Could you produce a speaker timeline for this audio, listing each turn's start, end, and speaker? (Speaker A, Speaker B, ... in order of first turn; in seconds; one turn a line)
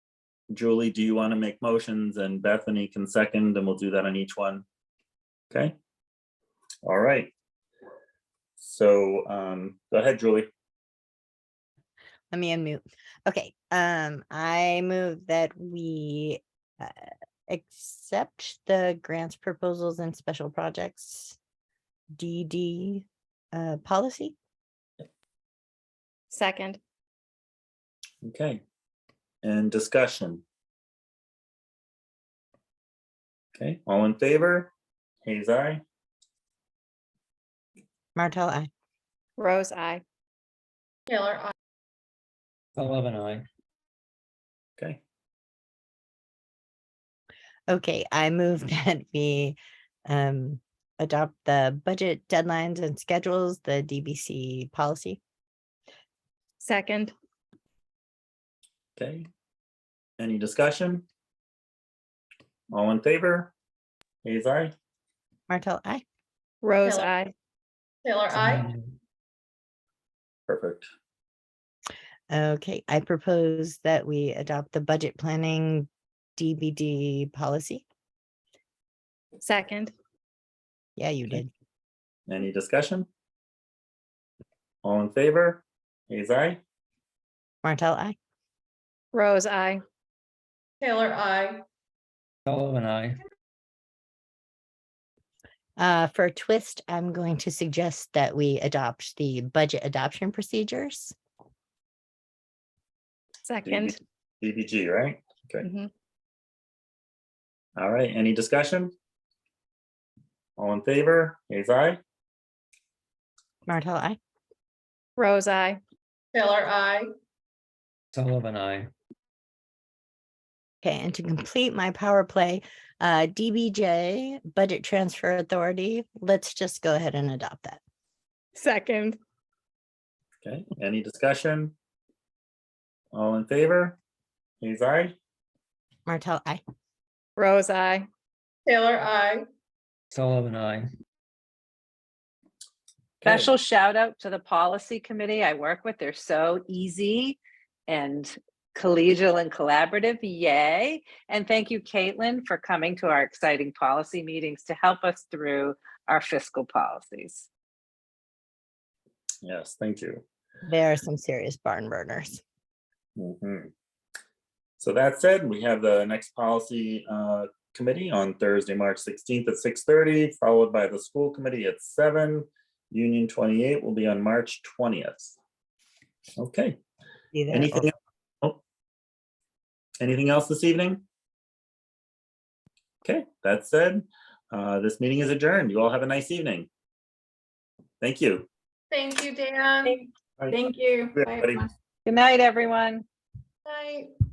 Speaker A: 0.5-4.6
Speaker A: 6.8-7.3
Speaker A: 8.6-10.5
Speaker B: 12.3-21.4
Speaker B: 22.1-24.3
Speaker C: 26.3-26.8
Speaker A: 28.2-28.6
Speaker A: 29.4-30.4
Speaker A: 33.5-34.7
Speaker A: 35.2-35.8
Speaker B: 38.1-38.7
Speaker C: 39.4-40.0
Speaker D: 41.1-41.5
Speaker E: 42.8-43.5
Speaker B: 47.7-49.6
Speaker B: 50.1-55.2
Speaker C: 56.6-57.1
Speaker A: 59.0-59.3
Speaker A: 60.2-61.0
Speaker A: 62.7-63.5
Speaker A: 64.2-64.7
Speaker B: 65.5-66.0
Speaker C: 66.6-67.3
Speaker D: 66.8-67.1
Speaker D: 68.0-68.7
Speaker E: 68.3-68.9
Speaker A: 70.5-70.8
Speaker B: 72.3-77.8
Speaker C: 79.4-79.9
Speaker B: 81.0-81.5
Speaker A: 82.3-83.1
Speaker A: 84.8-86.6
Speaker B: 87.6-88.2
Speaker C: 89.1-89.8
Speaker D: 90.8-91.6
Speaker E: 92.5-93.2
Speaker B: 95.8-101.1
Speaker C: 103.4-104.0
Speaker A: 103.6-105.7
Speaker C: 105.6-105.9
Speaker A: 107.8-108.9
Speaker A: 110.6-112.0
Speaker B: 113.7-114.2
Speaker C: 115.2-115.8
Speaker D: 116.3-117.1
Speaker E: 118.1-118.9
Speaker B: 120.8-127.8
Speaker C: 128.6-129.2
Speaker A: 130.4-131.7
Speaker A: 133.1-134.0
Speaker A: 134.6-135.2
Speaker B: 136.1-136.6
Speaker C: 137.4-138.1
Speaker D: 138.7-139.4
Speaker E: 140.1-140.9
Speaker A: 143.2-143.5
Speaker F: 143.2-157.4
Speaker A: 159.4-160.2
Speaker B: 160.7-162.4
Speaker A: 163.2-163.7
Speaker A: 164.8-175.4
Speaker A: 176.4-176.8
Speaker B: 177.3-177.9
Speaker A: 177.5-178.6
Speaker A: 180.0-181.0
Speaker A: 183.0-186.7
Speaker A: 188.0-188.5
Speaker D: 188.9-191.6
Speaker A: 191.1-191.6
Speaker F: 192.1-193.0
Speaker D: 193.7-194.1